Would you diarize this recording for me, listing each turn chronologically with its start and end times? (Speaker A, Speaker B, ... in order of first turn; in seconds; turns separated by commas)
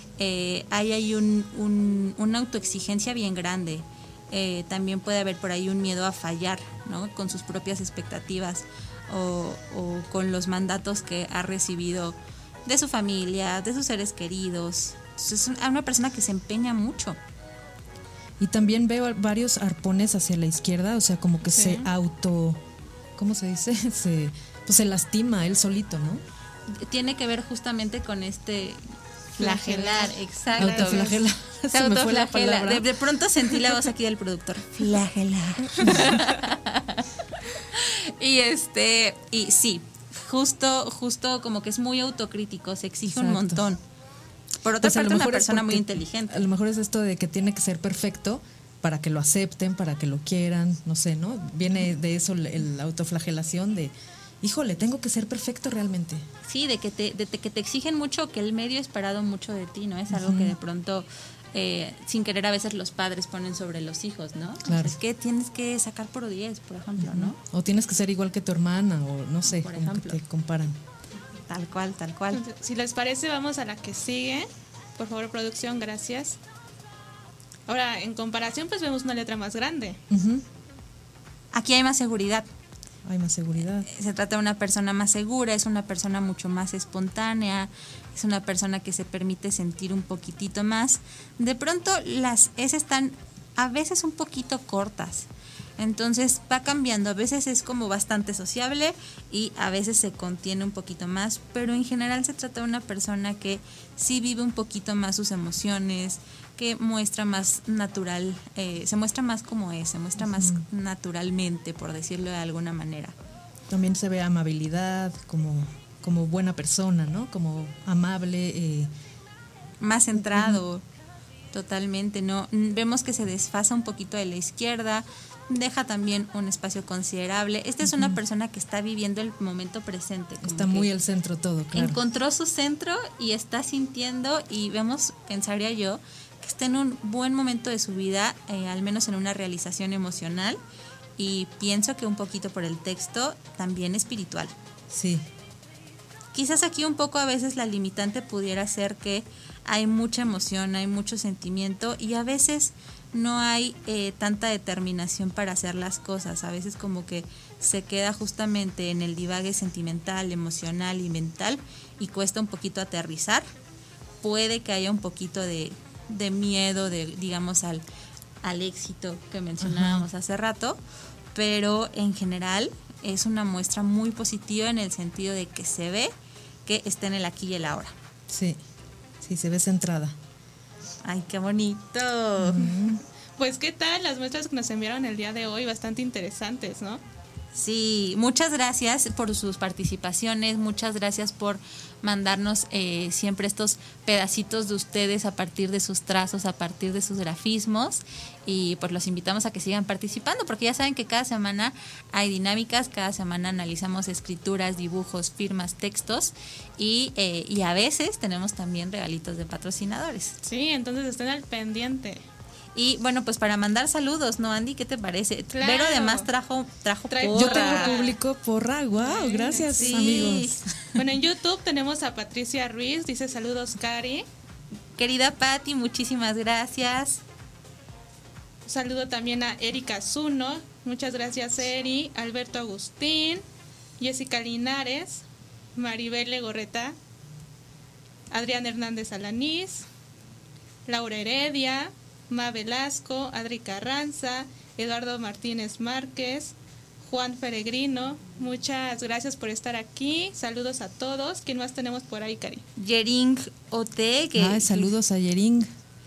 Speaker A: 0.2-17.2, Speaker B: 18.4-22.6, Speaker C: 21.5-21.9, Speaker B: 23.2-26.2, Speaker A: 26.7-28.8, Speaker A: 29.3-31.1, Speaker C: 29.4-31.2, Speaker B: 30.6-32.9, Speaker A: 31.7-43.8, Speaker B: 35.8-36.1, Speaker B: 43.1-43.7, Speaker A: 44.6-46.5, Speaker B: 44.8-56.3, Speaker A: 56.5-67.4, Speaker B: 60.1-60.5, Speaker B: 64.6-65.0, Speaker B: 67.0-70.8, Speaker A: 69.5-70.2, Speaker A: 71.5-72.4, Speaker C: 72.3-76.4, Speaker C: 77.7-80.0, Speaker B: 80.1-80.4, Speaker A: 81.5-82.5, Speaker B: 83.0-83.9, Speaker A: 83.8-113.1, Speaker B: 110.2-110.6, Speaker B: 113.7-118.9, Speaker A: 119.8-120.8, Speaker B: 120.1-120.6, Speaker A: 121.5-130.9, Speaker B: 127.8-128.2, Speaker B: 130.4-132.0, Speaker A: 131.7-140.6, Speaker A: 141.2-144.5, Speaker B: 144.9-145.2, Speaker A: 146.3-163.5, Speaker A: 164.2-167.8, Speaker A: 168.4-170.8, Speaker B: 169.6-170.1, Speaker A: 171.3-176.1, Speaker A: 176.6-177.9, Speaker B: 178.3-178.6, Speaker B: 179.2-180.2, Speaker A: 181.0-182.7, Speaker B: 182.4-183.0, Speaker C: 183.4-187.0, Speaker A: 187.5-210.4, Speaker C: 210.4-212.2, Speaker A: 212.7-217.9, Speaker C: 215.5-216.3, Speaker C: 217.1-218.2, Speaker B: 217.3-221.0, Speaker C: 219.0-220.4, Speaker A: 219.8-220.6, Speaker C: 220.9-224.2, Speaker A: 224.9-227.2, Speaker C: 228.7-233.4, Speaker C: 234.0-235.2, Speaker C: 235.8-236.9, Speaker C: 238.3-239.8, Speaker C: 240.8-252.6, Speaker A: 252.8-254.9, Speaker B: 254.3-255.7